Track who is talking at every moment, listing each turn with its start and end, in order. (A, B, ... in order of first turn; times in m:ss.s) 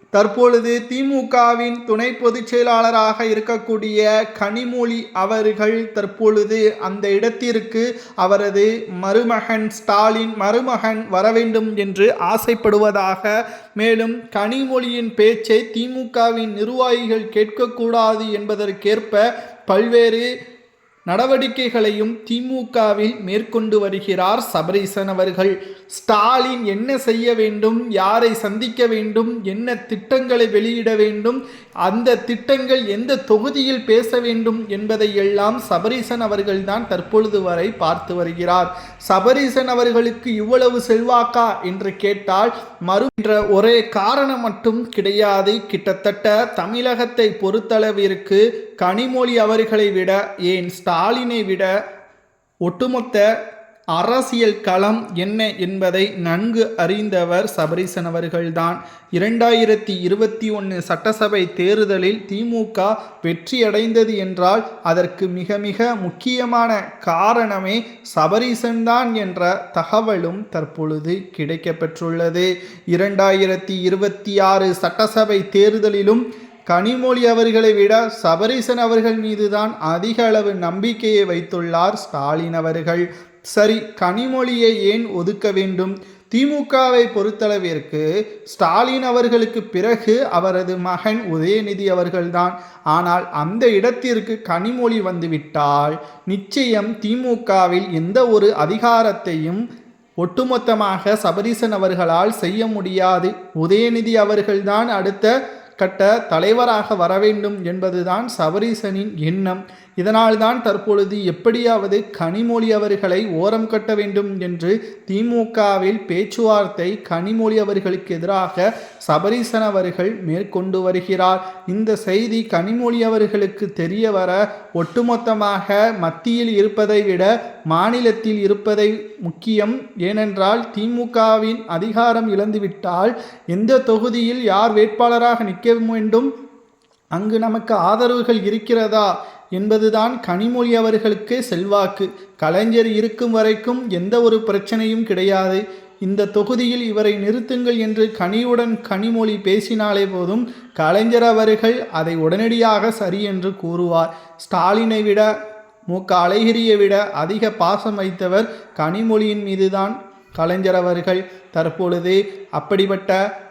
0:00.1-0:20.2 A
0:21.1-0:51.7 A
0:52.7-0:53.2 A
0:54.0-1:39.6 A
1:40.2-2:16.3 A
2:17.2-2:35.3 A
2:35.9-2:43.2 A